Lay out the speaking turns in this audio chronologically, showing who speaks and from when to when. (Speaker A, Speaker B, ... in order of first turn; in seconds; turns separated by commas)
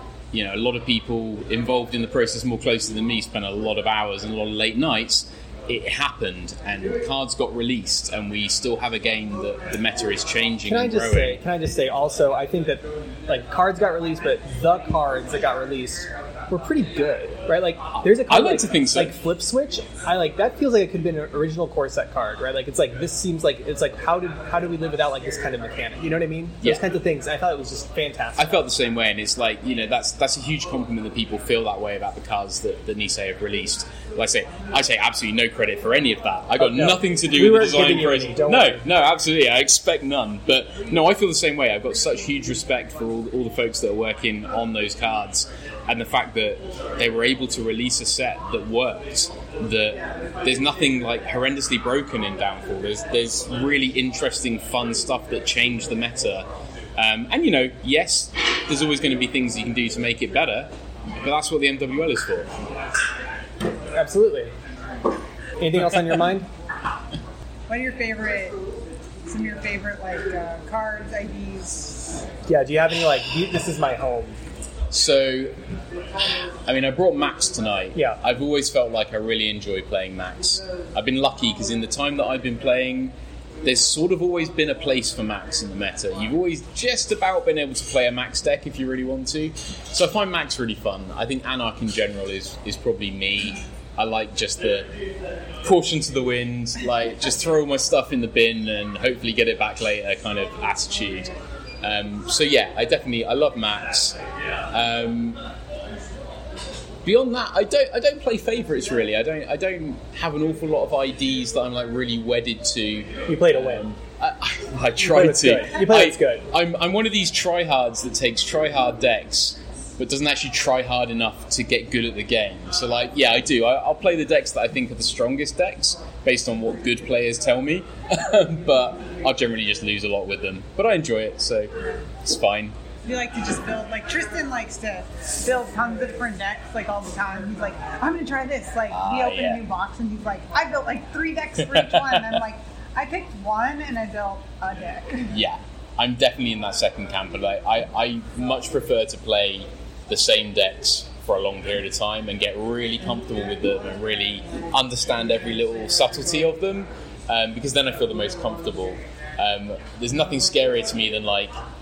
Speaker A: 0.3-11.4, Speaker B: 10.7-28.5, Speaker A: 18.0-19.2, Speaker A: 28.4-56.4, Speaker B: 36.6-38.8, Speaker A: 57.0-60.7, Speaker A: 61.2-62.5, Speaker B: 63.9-64.5, Speaker B: 65.6-66.5, Speaker C: 67.7-68.6, Speaker C: 69.2-72.2, Speaker B: 72.5-74.4, Speaker A: 74.9-75.5, Speaker A: 76.7-94.9, Speaker A: 95.6-104.2, Speaker A: 104.7-105.4, Speaker A: 107.0-132.7, Speaker B: 113.3-113.8, Speaker B: 115.0-116.5, Speaker C: 133.0-145.3, Speaker A: 138.9-139.6, Speaker A: 141.6-142.4, Speaker A: 145.3-161.5